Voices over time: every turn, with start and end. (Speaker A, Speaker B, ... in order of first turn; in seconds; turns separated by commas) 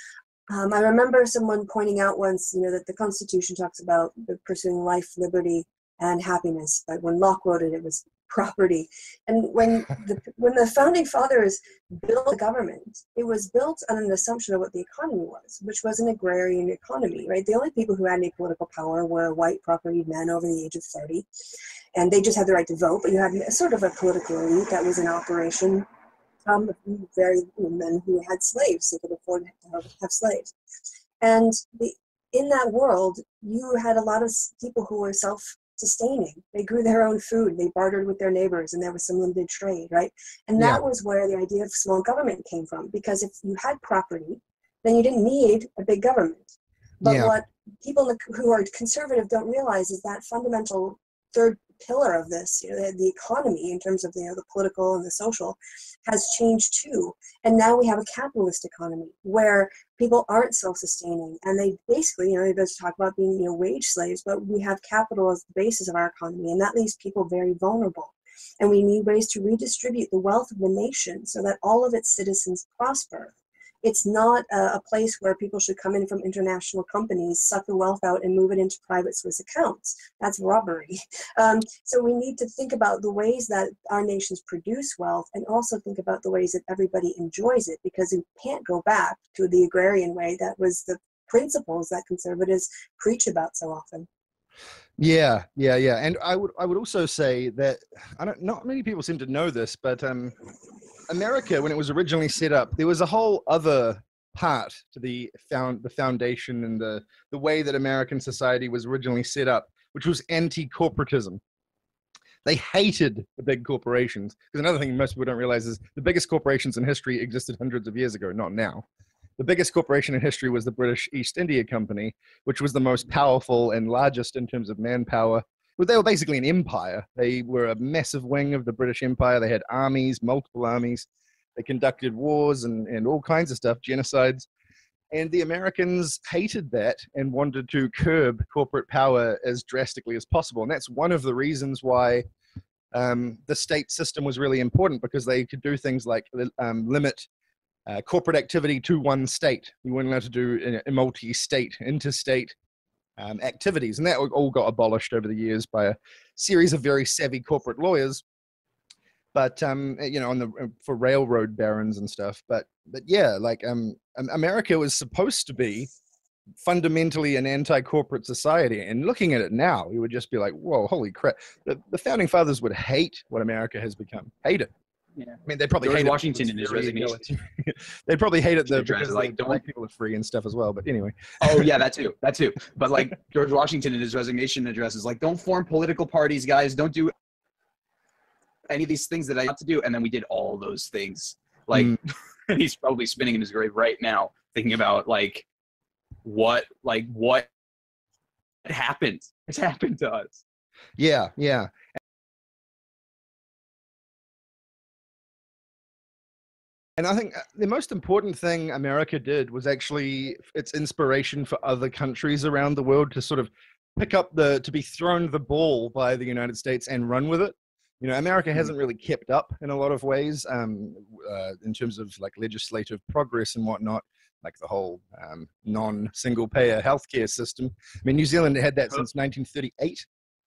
Speaker A: 0.5-21.3, Speaker A: 21.9-25.9, Speaker A: 26.5-30.5, Speaker A: 31.2-73.3, Speaker B: 47.0-47.3, Speaker A: 73.8-94.1, Speaker B: 95.0-100.4, Speaker B: 101.1-111.4, Speaker B: 112.5-118.8, Speaker B: 119.4-134.5, Speaker B: 135.1-142.2, Speaker B: 142.9-147.3, Speaker B: 147.9-152.6, Speaker B: 153.2-158.2, Speaker B: 159.3-165.9, Speaker B: 166.6-174.7, Speaker C: 175.2-177.2, Speaker B: 175.5-181.7, Speaker C: 178.7-179.6, Speaker C: 181.4-187.1, Speaker C: 188.7-192.0, Speaker B: 191.7-192.0, Speaker C: 192.5-195.4, Speaker C: 196.2-197.5, Speaker C: 198.7-200.4, Speaker B: 201.0-201.7, Speaker B: 207.0-230.1